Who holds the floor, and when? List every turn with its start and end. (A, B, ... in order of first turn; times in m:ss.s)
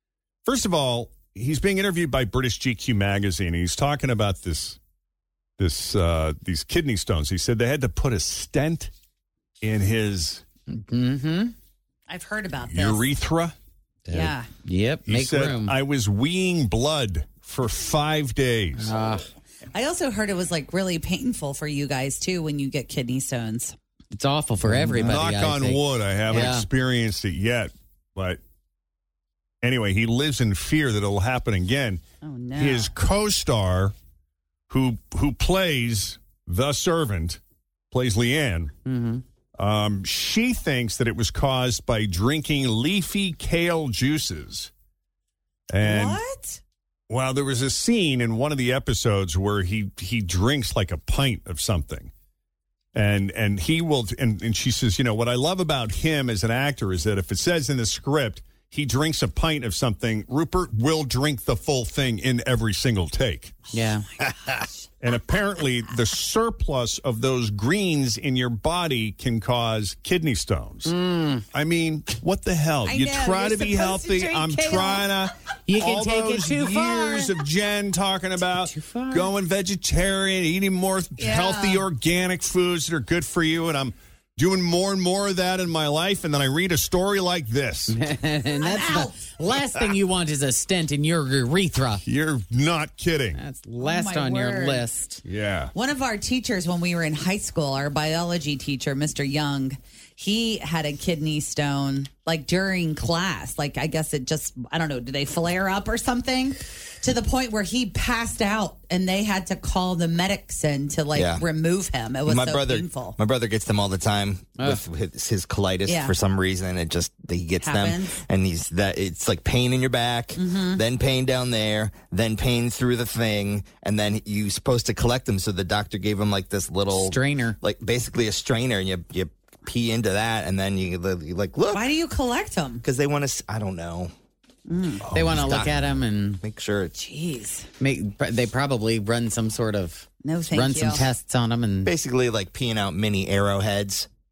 0:00.4-0:04.8 A
0:05.6-0:08.9 A
0:09.6-0:10.4 A
0:10.7-0:11.5 B
0:12.1-0:13.0 C
0:12.7-0:13.5 A
0:14.1-0:15.7 B
0:14.1-0:14.5 C
0:15.1-0:18.9 A
0:18.8-0:19.3 B
0:19.7-0:23.7 C
0:24.1-0:26.7 B
0:24.6-0:28.4 A
0:29.6-0:32.0 A
0:32.2-0:32.9 C
0:32.6-0:33.9 A
0:34.7-0:37.4 A
0:37.9-0:38.7 A
0:38.8-0:39.2 B
0:39.6-0:44.7 A
0:45.7-0:46.2 A
0:45.8-0:46.6 C
0:47.1-0:52.1 A
0:52.9-1:03.6 A
1:03.7-1:04.0 B
1:04.2-1:04.6 C
1:05.0-1:10.9 A
1:10.8-1:11.4 B
1:11.5-1:28.0 A
1:12.8-1:15.0 C
1:15.7-1:17.3 B
1:18.6-1:19.3 B
1:21.2-1:21.8 C
1:27.9-1:32.0 B
1:28.6-1:29.2 C
1:32.0-1:33.4 A
1:33.3-1:35.2 B
1:33.8-1:34.8 C
1:35.2-1:35.7 A
1:35.7-1:53.2 C
1:51.1-1:51.4 D
1:52.2-2:11.8 D
1:55.9-1:56.1 C
1:57.6-1:58.2 C
2:00.4-2:00.8 C
2:06.9-2:07.6 B
2:11.7-2:12.8 C
2:12.8-2:14.1 D
2:14.7-2:15.0 C
2:15.0-2:16.9 D
2:15.1-2:16.4 B
2:17.0-2:17.7 C
2:17.8-2:21.9 B
2:20.2-2:21.0 C
2:21.8-2:24.1 D